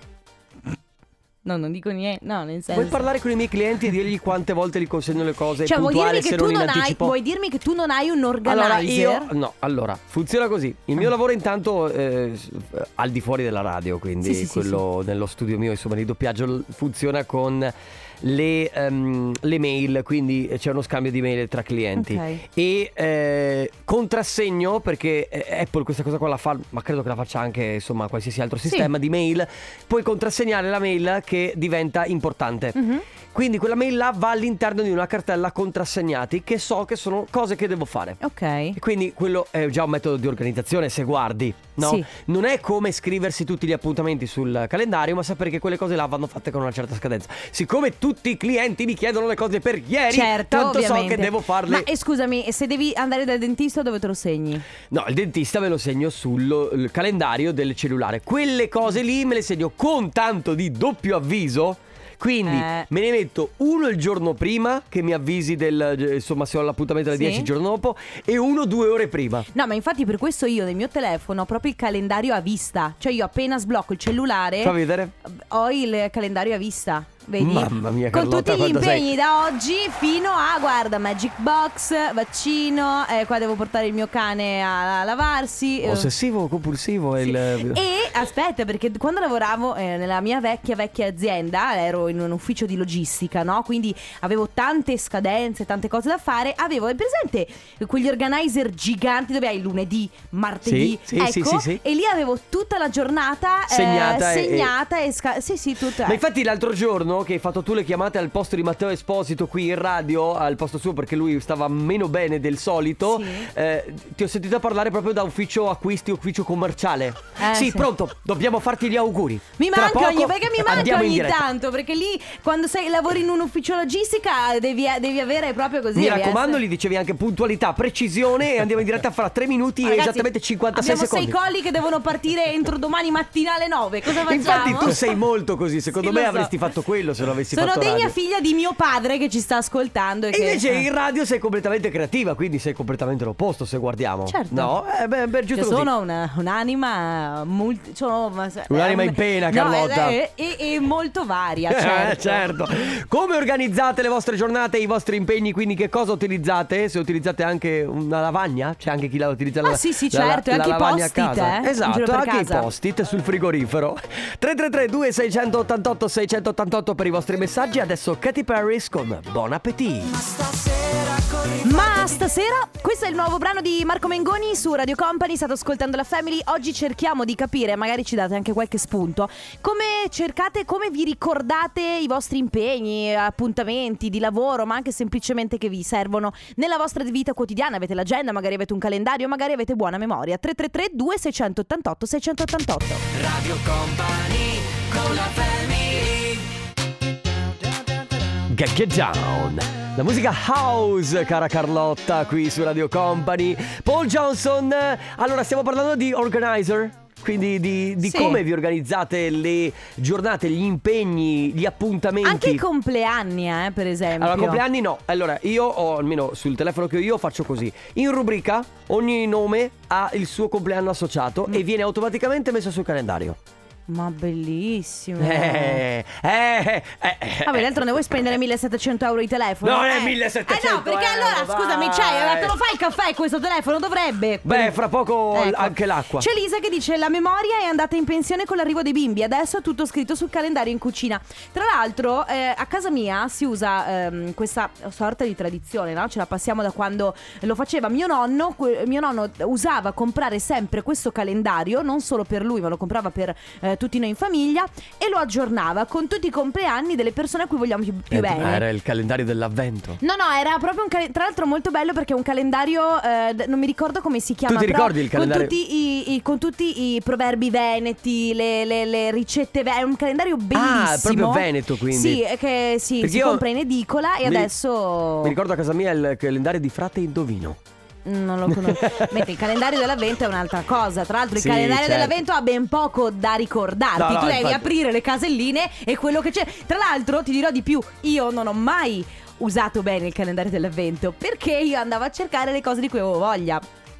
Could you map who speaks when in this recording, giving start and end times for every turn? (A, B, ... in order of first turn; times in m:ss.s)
0:01.4-0:03.0 A
0:02.7-0:07.1 B
0:05.6-0:09.3 A
0:08.4-0:32.8 B
0:14.2-0:14.8 A
0:22.0-0:22.4 A
0:32.7-0:33.0 A
0:33.3-0:38.2 B
0:38.2-0:38.8 A
0:38.7-0:51.9 B
0:41.8-0:42.1 A
0:50.1-0:54.6 A
0:54.9-1:09.5 B
1:02.4-1:02.9 A
1:07.1-1:07.5 A
1:09.5-1:26.1 A
1:14.6-1:15.1 B
1:17.4-1:19.1 B
1:25.8-1:27.8 B
1:27.2-1:46.2 A
1:40.6-1:41.8 B
1:43.7-1:44.7 B
1:46.0-2:01.4 B
1:53.0-1:53.5 A
1:57.4-1:57.9 A
1:59.6-2:06.6 A
2:05.9-2:11.4 B
2:09.8-2:15.0 A
2:14.2-2:18.1 B
2:16.0-2:16.5 A
2:17.5-2:20.9 A
2:20.3-2:25.9 B
2:24.3-2:24.7 A
2:25.5-2:32.5 A
2:28.7-2:30.2 B
2:31.7-2:50.2 B
2:39.6-2:42.7 A
2:51.6-3:13.0 A
3:13.1-3:16.4 B
3:18.5-3:32.6 B
3:28.0-3:28.4 A
3:32.2-3:34.6 A
3:34.2-3:43.4 B
3:43.9-3:45.8 A
3:45.2-3:48.0 B
3:47.4-4:18.6 A
3:49.6-3:52.6 B
3:54.4-3:56.3 B
4:18.1-4:20.0 B
4:20.0-4:35.4 A
4:24.5-4:25.5 B
4:30.5-4:32.2 B
4:33.0-4:33.4 B
4:34.2-4:34.5 B
4:35.2-4:37.6 B
4:38.0-4:53.6 A
4:38.5-4:39.3 B
4:41.3-4:42.2 B
4:44.0-4:44.7 B